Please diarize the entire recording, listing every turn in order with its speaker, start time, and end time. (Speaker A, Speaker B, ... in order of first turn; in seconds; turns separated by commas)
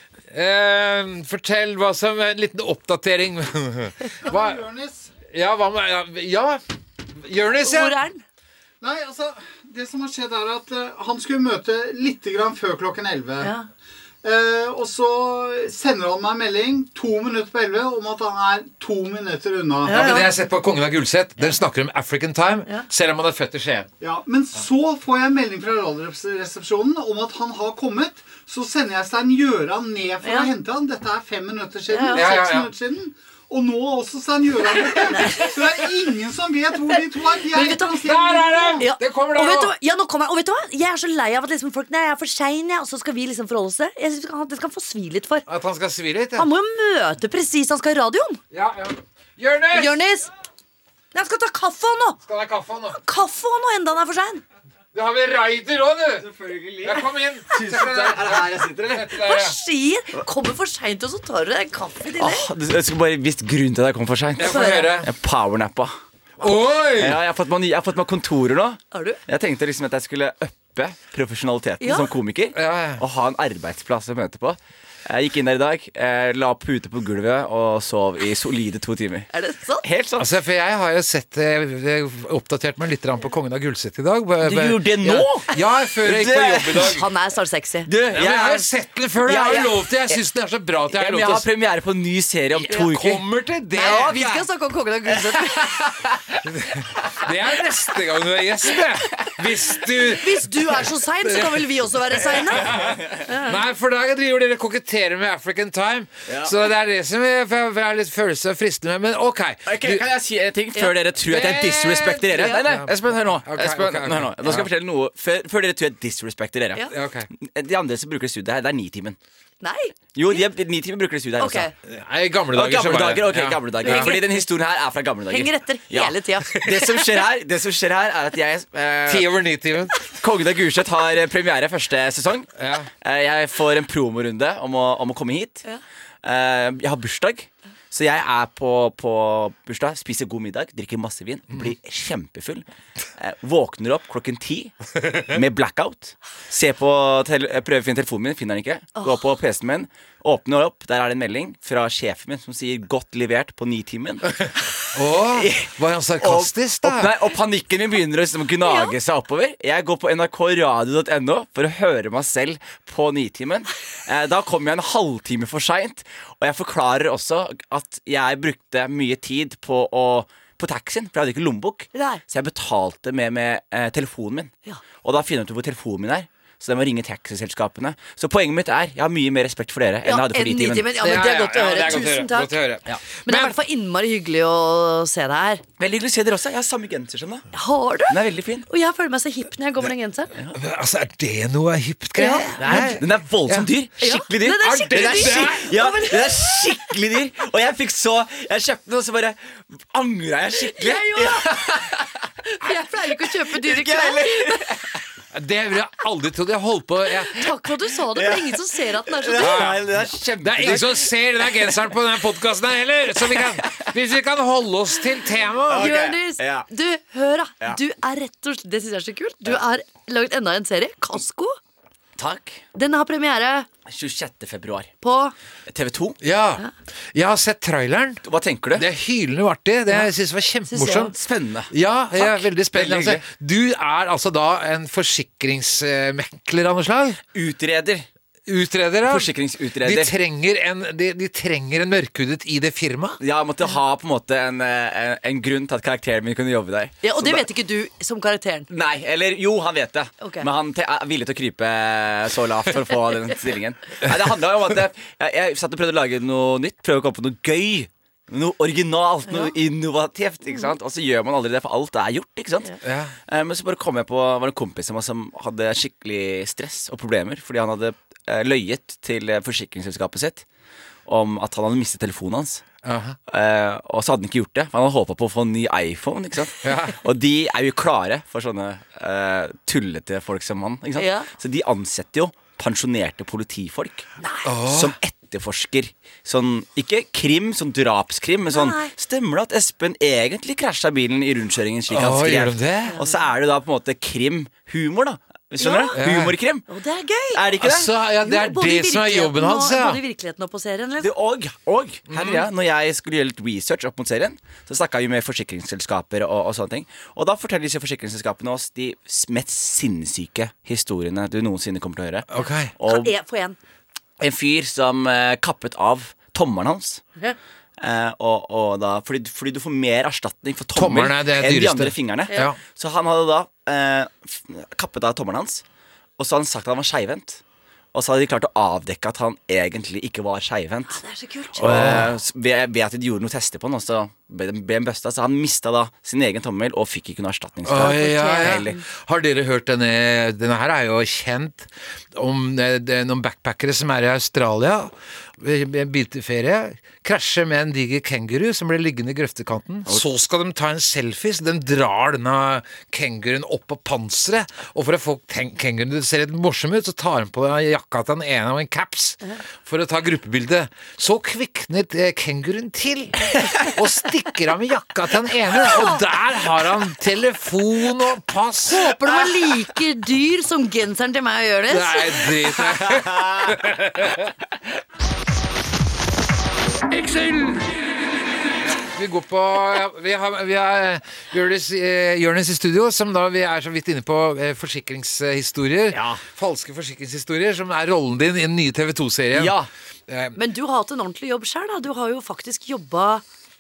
Speaker A: 0.3-4.6, Speaker B: 4.2-5.1, Speaker A: 5.3-8.0, Speaker C: 7.6-8.2, Speaker B: 8.8-13.5, Speaker C: 13.4-13.7, Speaker B: 14.2-20.2, Speaker C: 19.9-20.3, Speaker A: 19.9-23.9, Speaker B: 24.0-38.9, Speaker C: 30.2-30.5, Speaker C: 31.9-32.4, Speaker A: 32.1-32.7, Speaker C: 35.1-35.5, Speaker C: 37.5-38.0, Speaker A: 37.8-39.7, Speaker C: 38.8-45.5, Speaker A: 45.5-46.5, Speaker C: 46.4-48.4, Speaker A: 48.5-50.0, Speaker C: 49.7-50.3, Speaker C: 51.1-52.2, Speaker A: 52.2-53.0, Speaker C: 52.9-54.4, Speaker A: 54.9-56.3, Speaker D: 56.2-59.1, Speaker A: 56.8-59.6, Speaker C: 59.1-62.5, Speaker D: 62.2-65.9, Speaker A: 64.4-65.1, Speaker C: 64.4-65.0, Speaker A: 66.4-67.2, Speaker D: 66.9-79.3, Speaker C: 68.9-69.2, Speaker C: 71.8-72.1, Speaker A: 72.5-73.0, Speaker C: 79.3-79.8, Speaker D: 79.8-80.3, Speaker A: 80.2-87.1, Speaker D: 84.4-87.0, Speaker C: 86.8-87.9, Speaker D: 87.9-88.7, Speaker A: 88.1-91.5, Speaker D: 89.2-90.2, Speaker D: 90.9-93.2, Speaker A: 92.6-94.2, Speaker C: 93.8-95.8, Speaker D: 93.8-94.5, Speaker D: 95.4-96.2, Speaker A: 96.4-110.0, Speaker C: 100.2-103.6, Speaker D: 102.8-103.2, Speaker D: 106.3-106.6, Speaker D: 109.7-119.2, Speaker A: 111.2-114.7, Speaker C: 112.3-112.6, Speaker A: 116.9-117.3, Speaker C: 119.6-120.4, Speaker D: 120.2-121.7, Speaker C: 121.4-121.7, Speaker A: 121.9-124.2, Speaker D: 122.5-129.3, Speaker C: 123.8-124.4, Speaker C: 125.3-126.7, Speaker A: 126.5-126.8, Speaker A: 129.1-130.0, Speaker D: 130.0-135.6, Speaker A: 132.6-132.9, Speaker D: 136.2-142.7, Speaker D: 143.2-154.4, Speaker A: 154.4-157.2, Speaker D: 155.2-180.9, Speaker C: 158.6-158.9, Speaker C: 171.9-172.2, Speaker C: 180.1-182.6, Speaker A: 181.0-183.6, Speaker C: 183.2-185.6, Speaker D: 185.8-187.5, Speaker C: 187.5-190.3, Speaker D: 188.1-188.7, Speaker A: 190.5-193.7, Speaker C: 192.2-192.9, Speaker D: 192.6-202.2, Speaker C: 194.0-196.8, Speaker A: 194.5-195.8, Speaker C: 200.6-201.6, Speaker C: 202.5-204.7, Speaker D: 203.3-205.0, Speaker A: 205.3-207.4, Speaker C: 207.3-209.7, Speaker D: 208.1-211.8, Speaker A: 209.4-215.9, Speaker D: 213.3-213.9, Speaker D: 215.7-216.7, Speaker C: 215.7-221.6, Speaker D: 222.2-222.6, Speaker C: 222.8-223.7, Speaker D: 223.9-224.9, Speaker C: 225.0-225.3, Speaker D: 225.7-226.2, Speaker A: 226.2-228.2, Speaker D: 228.2-228.9, Speaker A: 228.8-231.1, Speaker C: 230.7-231.1, Speaker D: 231.1-233.2, Speaker A: 231.7-237.2, Speaker D: 237.3-238.1, Speaker A: 238.5-243.2, Speaker D: 239.1-240.1, Speaker D: 243.2-247.5, Speaker C: 247.0-248.7, Speaker D: 248.7-262.8, Speaker C: 250.2-250.5, Speaker A: 262.8-263.1, Speaker D: 263.3-270.4, Speaker D: 271.1-272.6, Speaker A: 272.8-273.2, Speaker D: 273.3-284.1, Speaker A: 276.6-277.0, Speaker C: 281.0-281.3, Speaker C: 284.2-284.5, Speaker A: 284.4-285.0, Speaker D: 284.7-296.7, Speaker C: 288.5-288.9, Speaker A: 291.9-293.0, Speaker C: 292.9-293.2, Speaker C: 295.6-296.0, Speaker A: 296.0-296.4, Speaker C: 296.7-297.4, Speaker D: 297.3-297.9, Speaker A: 297.6-300.0, Speaker C: 298.2-301.1, Speaker D: 301.0-313.1, Speaker A: 302.1-302.5, Speaker A: 312.3-312.7, Speaker C: 312.4-313.6, Speaker D: 314.2-317.0, Speaker D: 317.8-325.6, Speaker A: 320.8-322.6, Speaker D: 326.2-327.4, Speaker D: 327.9-331.0, Speaker C: 330.9-331.9, Speaker D: 331.6-338.8, Speaker A: 331.6-332.1, Speaker A: 337.7-369.0, Speaker C: 337.8-338.8, Speaker C: 365.6-366.0, Speaker C: 368.7-372.3, Speaker A: 371.7-374.3, Speaker D: 372.8-373.6, Speaker A: 378.6-389.6, Speaker D: 385.9-386.2, Speaker D: 389.3-389.7, Speaker A: 390.1-390.4, Speaker C: 390.4-393.2